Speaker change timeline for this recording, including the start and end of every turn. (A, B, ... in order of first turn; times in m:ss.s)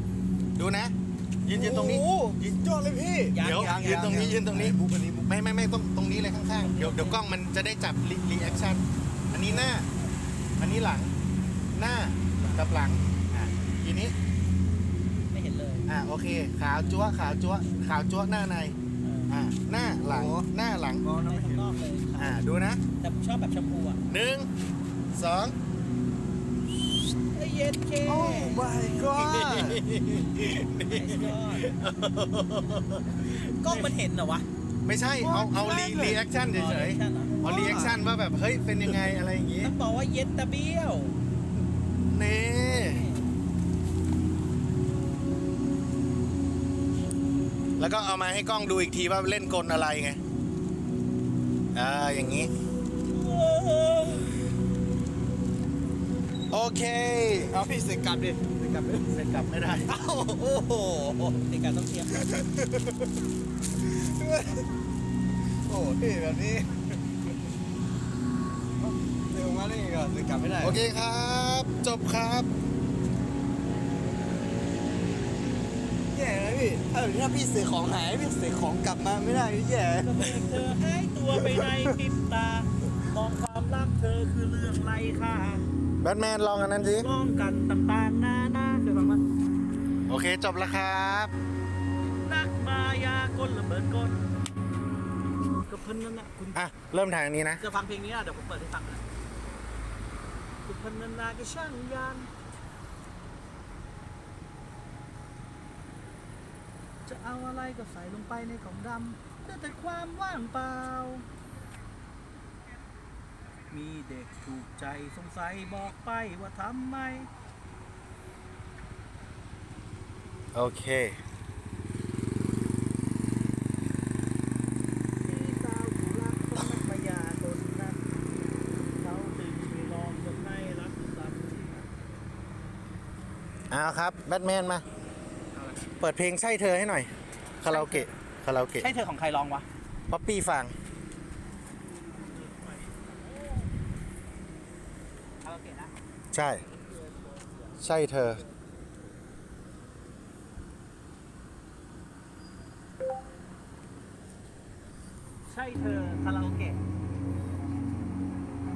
0:00.6-0:00.9 A
0:01.4-0:02.1 A
0:01.5-0:05.3 B
0:03.3-0:03.8 C
0:03.4-0:09.9 A
0:06.6-0:07.2 C
0:10.6-0:11.1 A
0:11.7-0:14.2 A
0:12.4-0:12.6 C
0:15.3-0:15.9 C
0:15.9-0:18.8 A
0:16.8-0:17.8 C
0:19.0-0:19.3 C
0:19.3-0:21.0 A
0:20.0-0:20.5 B
0:21.0-0:21.7 B
0:21.2-0:22.4 C
0:22.2-0:22.8 A
0:23.0-0:24.0 C
0:24.1-0:24.5 A
0:25.2-0:25.6 A
0:27.3-0:28.6 C
0:28.0-0:29.8 B
0:29.1-0:33.8 A
0:30.8-0:31.8 C
0:33.2-0:34.5 C
0:34.8-0:39.7 A
0:35.2-0:36.2 B
0:36.2-0:37.4 C
0:37.4-0:38.0 B
0:39.6-0:41.2 C
0:42.1-0:43.0 A
0:42.6-0:43.3 C
0:47.8-0:50.2 A
0:51.7-0:52.5 A
0:53.1-0:54.3 C
0:56.5-0:57.6 A
0:57.4-0:59.1 B
0:59.0-0:59.9 A
0:59.9-1:02.4 C
1:02.2-1:03.1 B
1:03.8-1:04.7 B
1:05.7-1:06.9 B
1:08.8-1:10.8 B
1:10.6-1:12.5 A
1:16.1-1:20.5 B
1:20.0-1:25.6 C
1:21.4-1:21.6 B
1:26.0-1:27.1 A
1:26.8-1:29.2 C
1:30.1-1:31.3 A
1:32.2-1:34.2 C
1:35.7-1:36.6 C
1:36.6-1:37.6 A
1:37.6-1:39.0 C
1:40.7-1:42.3 C
1:47.0-1:51.2 C
1:53.7-1:57.3 C
2:00.5-2:01.2 A
2:05.2-2:08.1 C
2:08.7-2:11.9 C
2:13.7-2:14.8 A
2:16.0-2:17.1 A
2:17.6-2:18.9 A
2:17.7-2:18.1 C
2:18.8-2:19.6 C
2:20.1-2:20.7 A
2:21.9-2:23.7 C
2:25.4-2:25.9 C
2:26.3-2:26.6 A
2:26.7-2:27.8 C
2:27.8-2:28.4 A
2:35.5-2:36.8 C